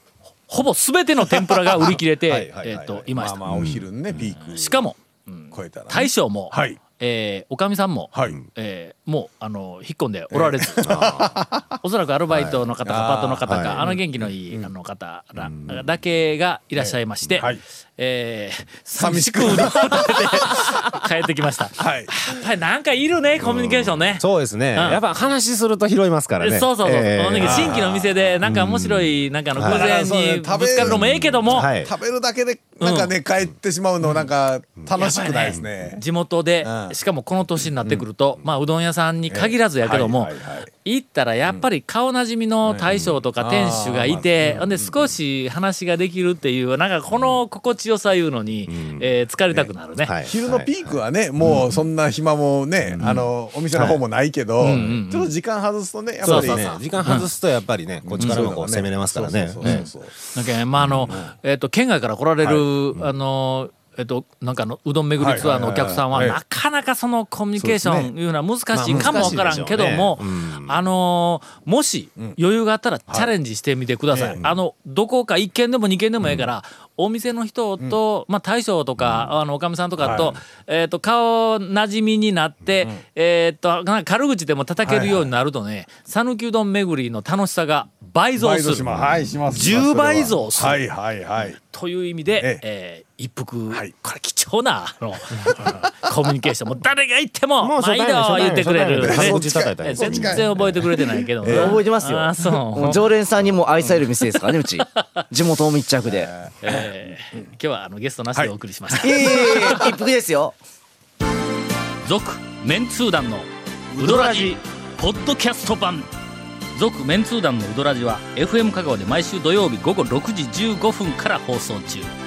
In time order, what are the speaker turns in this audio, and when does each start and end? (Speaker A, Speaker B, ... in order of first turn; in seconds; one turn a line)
Speaker A: 0.5-3.5
Speaker B: 1.3-1.9
Speaker C: 2.3-2.9
Speaker B: 2.9-4.8
Speaker C: 3.5-4.2
Speaker A: 4.4-11.2
Speaker B: 5.5-6.8
Speaker B: 8.1-8.4
Speaker B: 10.3-11.7
Speaker C: 10.8-11.3
Speaker A: 11.8-25.0
Speaker C: 12.3-12.7
Speaker B: 12.8-14.7
Speaker C: 13.4-13.8
Speaker C: 15.4-15.7
Speaker B: 16.8-17.6
Speaker B: 19.0-20.7
Speaker B: 21.8-22.1
Speaker C: 23.4-27.8
Speaker A: 26.4-31.7
Speaker B: 27.4-28.4
Speaker C: 28.4-29.9
Speaker B: 29.6-36.0
Speaker C: 30.8-31.9
Speaker A: 32.8-33.1
Speaker A: 34.9-50.1
Speaker B: 36.6-37.0
Speaker B: 39.3-40.7
Speaker C: 42.7-43.2
Speaker B: 43.4-45.0
Speaker C: 44.1-44.8
Speaker C: 47.1-47.4
Speaker C: 48.7-49.1
Speaker C: 50.0-51.8
Speaker B: 50.2-57.2
Speaker C: 52.8-53.2
Speaker A: 53.0-53.3
Speaker C: 53.7-54.0
Speaker A: 54.6-55.3
Speaker C: 54.6-55.0
Speaker A: 56.2-57.3
Speaker C: 56.2-59.9
Speaker B: 58.0-60.1
Speaker A: 58.2-58.5
Speaker A: 59.6-88.9
Speaker C: 60.8-61.1
Speaker B: 61.1-61.3
Speaker B: 62.4-62.7
Speaker B: 65.2-66.4
Speaker B: 67.6-68.1
Speaker C: 68.7-70.8
Speaker B: 68.9-69.5
Speaker B: 74.1-74.5
Speaker C: 79.0-79.3
Speaker C: 80.0-80.4
Speaker B: 80.0-80.3
Speaker B: 84.8-85.3
Speaker B: 88.3-91.6
Speaker A: 89.5-90.8
Speaker A: 91.4-103.1
Speaker B: 92.4-92.6
Speaker C: 97.6-100.9
Speaker B: 99.0-101.9
Speaker D: 101.4-106.3
Speaker A: 104.2-105.2
Speaker A: 106.6-109.9
Speaker B: 108.3-109.8
Speaker D: 109.0-110.6
Speaker A: 112.0-116.1
Speaker D: 114.0-114.5
Speaker A: 116.7-122.1